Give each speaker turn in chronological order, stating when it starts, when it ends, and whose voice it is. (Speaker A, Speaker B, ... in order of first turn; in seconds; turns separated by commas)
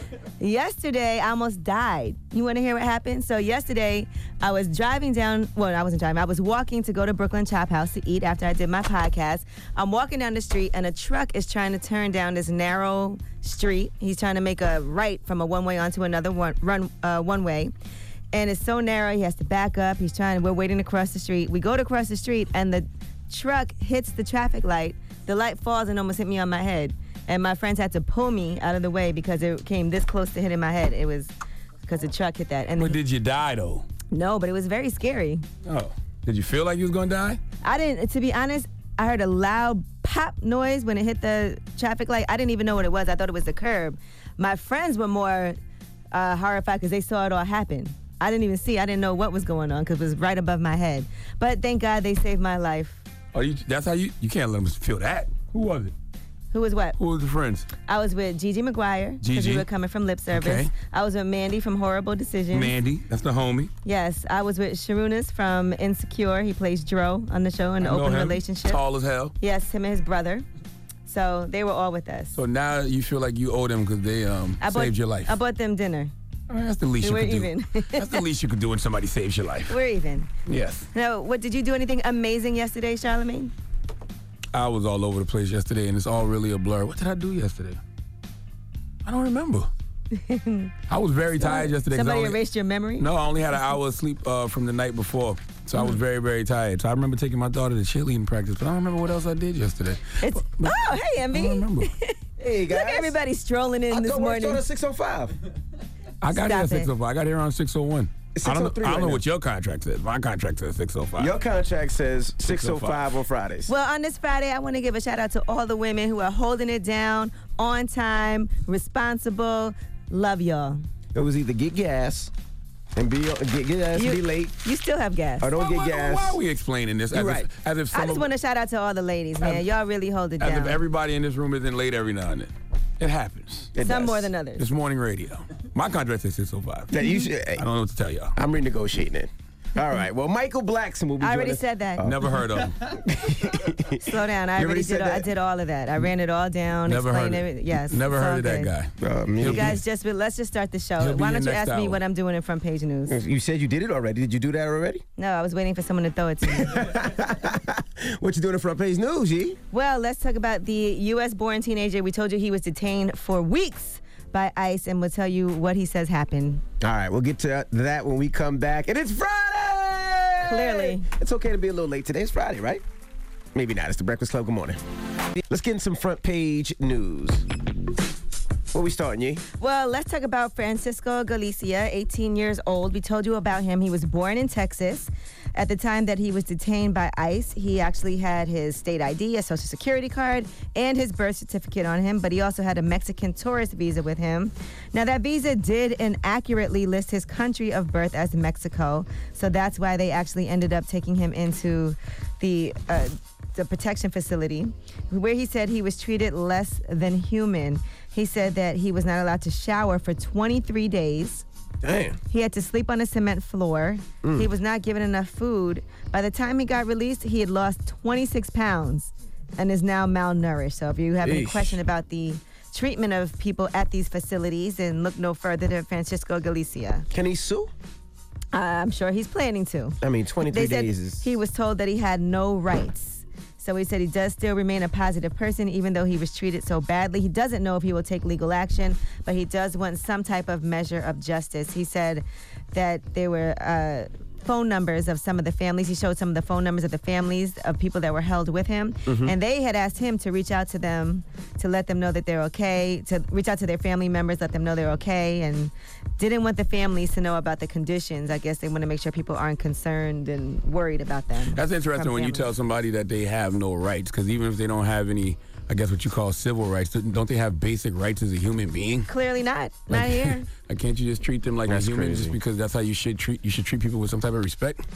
Speaker A: 0.4-17.7, Speaker A: 18.3-31.3, Speaker A: 31.9-33.0, Speaker B: 32.8-33.9, Speaker A: 34.1-35.4, Speaker B: 35.6-37.4, Speaker A: 37.6-45.6, Speaker A: 46.1-53.0, Speaker B: 53.3-55.9, Speaker A: 56.5-57.0, Speaker B: 57.0-57.7, Speaker A: 57.9-62.7, Speaker B: 59.2-59.7, Speaker B: 60.3-60.7, Speaker B: 62.5-63.7, Speaker A: 63.9-68.8, Speaker B: 67.8-69.3, Speaker A: 69.4-70.4, Speaker A: 71.1-72.4, Speaker B: 72.3-75.3, Speaker A: 74.6-76.1, Speaker B: 76.5-79.7, Speaker A: 77.0-78.2, Speaker A: 79.7-80.3, Speaker B: 80.5-80.9, Speaker A: 80.9-83.5, Speaker B: 84.5-87.8, Speaker B: 89.0-89.7, Speaker A: 90.1-90.7, Speaker B: 90.9-92.4, Speaker A: 91.4-93.1, Speaker B: 93.0-101.9, Speaker A: 100.2-102.1, Speaker C: 102.4-103.2, Speaker A: 102.7-104.6, Speaker C: 103.9-105.3, Speaker B: 106.2-111.3, Speaker A: 106.3-106.9, Speaker C: 108.4-109.2, Speaker C: 111.2-113.7, Speaker B: 112.5-113.0, Speaker A: 113.7-120.8, Speaker C: 121.2-122.3, Speaker C: 123.0-124.5, Speaker A: 124.0-125.5, Speaker C: 125.4-126.4, Speaker B: 125.6-128.3, Speaker C: 127.1-127.5, Speaker A: 127.9-130.8, Speaker B: 130.4-133.7, Speaker C: 133.8-134.3, Speaker A: 133.8-134.6, Speaker B: 134.6-137.0, Speaker C: 136.9-137.6, Speaker B: 137.6-138.4, Speaker C: 138.4-142.2, Speaker A: 141.2-142.0, Speaker B: 142.0-142.9, Speaker C: 143.1-144.1, Speaker A: 144.0-148.7, Speaker C: 144.6-145.3, Speaker B: 146.9-149.8, Speaker C: 149.0-149.7, Speaker A: 149.4-153.2, Speaker B: 151.0-152.0, Speaker C: 153.1-155.0, Speaker A: 155.2-156.8, Speaker C: 156.4-159.6, Speaker A: 159.7-166.6, Speaker C: 166.8-172.8, Speaker A: 170.4-171.0, Speaker C: 173.5-174.8, Speaker C: 175.5-177.4, Speaker C: 178.7-179.4, Speaker A: 179.6-211.4, Speaker C: 211.8-212.2, Speaker A: 212.3-227.1, Speaker C: 214.2-214.5, Speaker C: 221.2-221.8, Speaker C: 227.1-227.7, Speaker A: 228.5-262.5, Speaker C: 230.0-231.3, Speaker C: 249.1-249.3, Speaker B: 261.5-269.1, Speaker A: 269.1-270.5, Speaker B: 269.9-274.8, Speaker C: 271.7-272.4